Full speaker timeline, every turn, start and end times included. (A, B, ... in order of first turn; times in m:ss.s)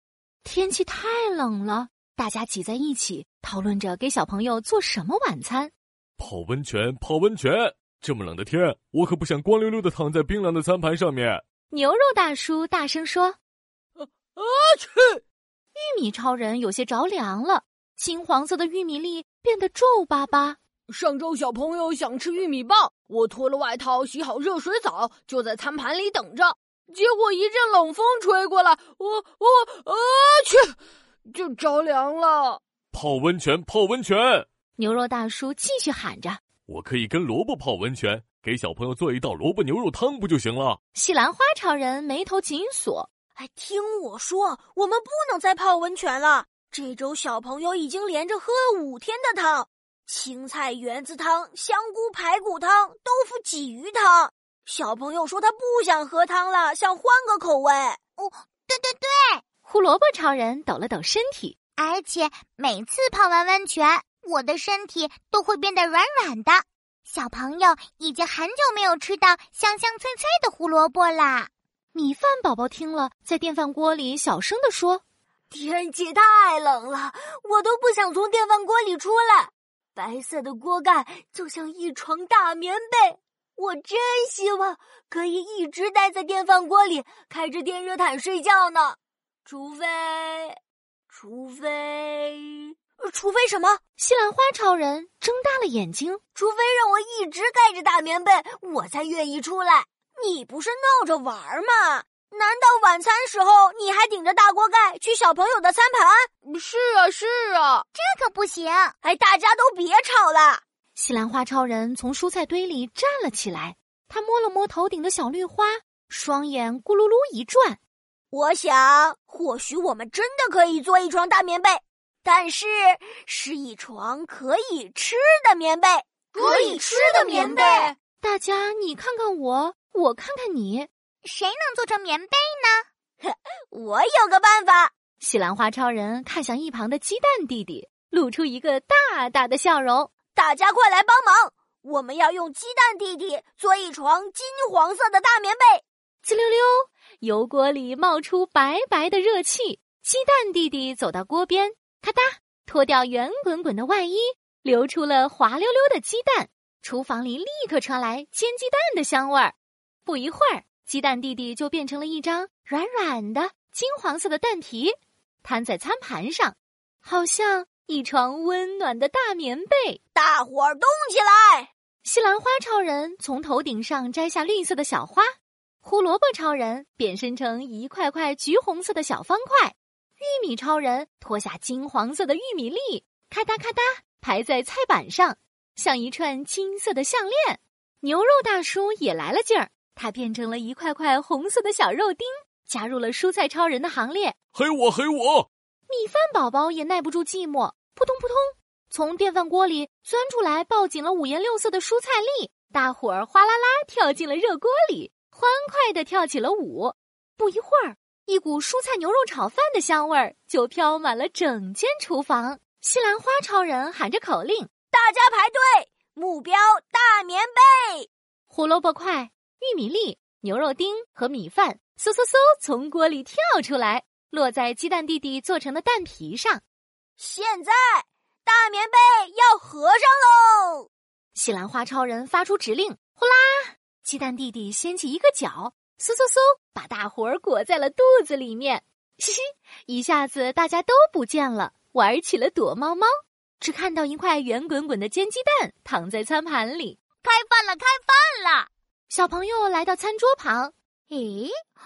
0:00.4-0:05.7 A
0:06.2-0:11.4 B
0:11.7-0:13.4 A
0:14.4-0:15.2 C
0:15.8-0:20.6 A
0:20.9-0:30.7 C
0:31.3-0:32.6 C
0:32.9-0:34.5 B
0:34.8-0:36.4 A
0:36.7-0:40.8 B
0:41.0-0:43.1 A
0:43.4-0:58.0 D
0:58.2-0:59.4 E
0:59.6-1:01.6 A
1:01.8-1:11.5 E
1:11.9-1:15.0 A
1:15.5-1:30.6 D
1:31.1-1:33.8 D
1:34.0-1:36.2 A
1:36.4-1:46.3 D
1:46.5-1:47.8 C
1:47.9-1:49.0 E
1:49.0-1:50.6 D
1:51.0-1:57.8 A
1:58.3-2:07.9 D
2:06.4-2:07.9 E
2:08.2-2:10.9 A
2:11.2-2:12.9 E
2:13.2-2:14.9 D
2:15.2-2:20.1 A
2:20.3-2:25.8 D
2:26.2-2:50.0 A
2:50.2-2:51.7 D
2:52.0-3:14.4 A
3:14.5-3:15.5 B
3:15.9-3:34.7 A
3:34.9-3:38.1 D
3:38.5-3:46.6 A
3:47.2-3:50.9 D
3:51.4-4:07.0 A
4:07.2-4:08.7 E
4:09.1-4:10.7 A
4:11.1-4:11.5 E